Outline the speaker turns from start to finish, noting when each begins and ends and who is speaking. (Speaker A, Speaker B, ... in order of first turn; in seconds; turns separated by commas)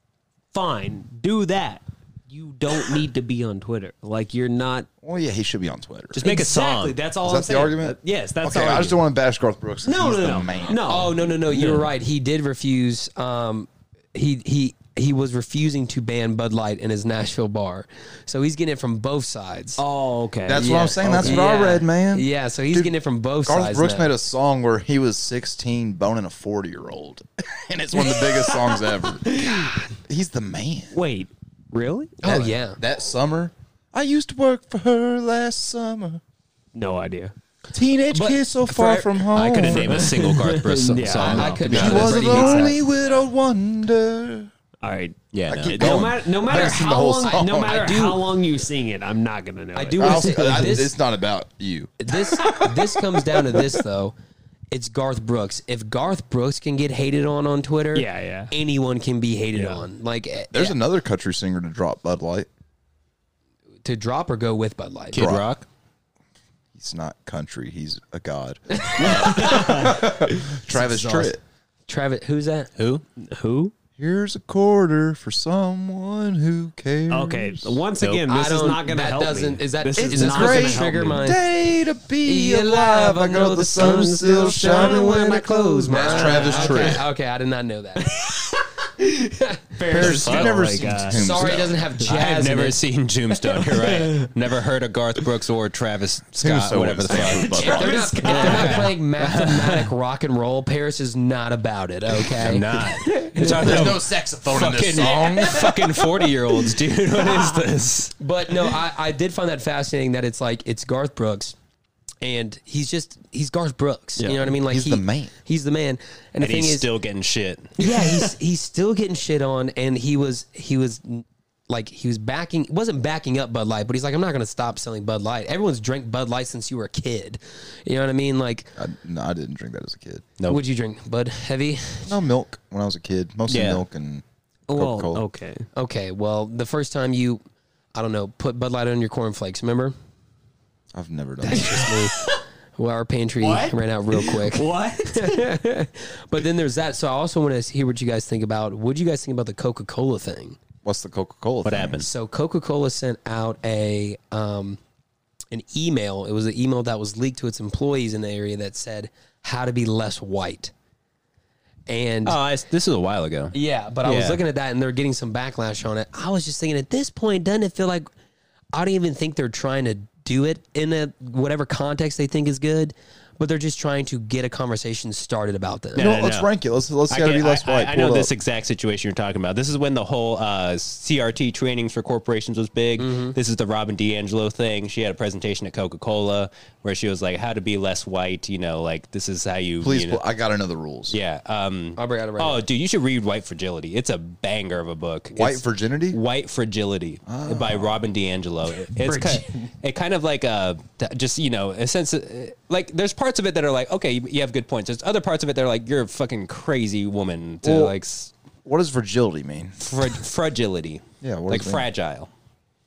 Speaker A: 0.5-4.9, Speaker B: 5.0-6.2, Speaker C: 6.1-7.0, Speaker A: 6.2-9.0, Speaker B: 7.2-11.0, Speaker A: 9.8-11.9, Speaker D: 10.9-19.8, Speaker A: 19.8-21.5, Speaker B: 20.4-22.9, Speaker D: 20.6-24.1, Speaker B: 23.4-30.9, Speaker A: 29.3-29.7, Speaker A: 30.9-32.5, Speaker D: 32.2-32.8, Speaker B: 32.3-36.2, Speaker A: 36.7-37.3, Speaker B: 37.7-40.1, Speaker D: 38.1-39.2, Speaker C: 39.3-42.1, Speaker A: 39.8-43.2, Speaker D: 41.2-42.8, Speaker B: 41.6-44.5, Speaker A: 44.8-50.7, Speaker C: 45.3-46.1, Speaker B: 45.5-48.0, Speaker D: 46.5-48.3, Speaker D: 49.7-50.9, Speaker B: 50.0-52.6, Speaker D: 52.0-54.1, Speaker D: 54.7-60.8, Speaker A: 58.0-58.5, Speaker A: 59.5-59.8, Speaker B: 60.5-62.5, Speaker D: 63.8-65.3, Speaker C: 65.1-65.7, Speaker B: 65.1-65.5, Speaker B: 66.7-71.4, Speaker D: 68.8-70.0, Speaker A: 69.0-70.0, Speaker D: 70.7-71.4, Speaker D: 71.9-72.7, Speaker C: 72.8-73.0, Speaker A: 73.2-73.7, Speaker B: 74.0-77.8, Speaker A: 77.1-81.3, Speaker D: 78.3-81.4, Speaker B: 80.0-87.0, Speaker D: 82.2-88.2, Speaker A: 83.8-87.0, Speaker A: 88.0-91.5, Speaker B: 89.9-91.9, Speaker C: 90.0-90.7, Speaker D: 91.1-92.8, Speaker C: 92.0-97.7, Speaker A: 93.5-94.3, Speaker B: 96.4-98.2, Speaker A: 97.1-98.9, Speaker D: 97.6-103.9, Speaker C: 98.2-99.9, Speaker C: 102.3-108.1, Speaker B: 103.5-105.8, Speaker D: 108.2-111.5, Speaker D: 112.2-116.9, Speaker A: 114.2-114.4, Speaker B: 114.5-115.3, Speaker C: 116.4-117.7, Speaker D: 117.8-128.7, Speaker A: 117.8-118.3, Speaker B: 128.8-130.3, Speaker D: 130.5-132.1, Speaker B: 132.1-135.2, Speaker C: 133.5-133.8, Speaker A: 134.7-135.7, Speaker D: 135.7-137.4, Speaker D: 137.9-139.9, Speaker B: 140.9-141.9, Speaker D: 141.4-142.2, Speaker D: 142.8-150.6, Speaker A: 143.4-145.5, Speaker B: 150.8-152.1, Speaker C: 151.6-152.1, Speaker D: 152.0-154.8, Speaker D: 155.5-160.7, Speaker D: 161.9-162.4, Speaker C: 162.3-164.4, Speaker D: 163.5-168.1, Speaker D: 168.7-176.1, Speaker C: 175.9-176.5, Speaker B: 176.0-178.3, Speaker C: 177.1-190.2, Speaker D: 183.0-183.4, Speaker B: 189.8-191.2, Speaker C: 191.1-208.3, Speaker D: 191.9-192.6, Speaker B: 195.3-196.2, Speaker B: 197.3-198.0, Speaker B: 207.6-207.9, Speaker B: 208.6-209.9, Speaker C: 209.8-212.3, Speaker B: 211.2-211.9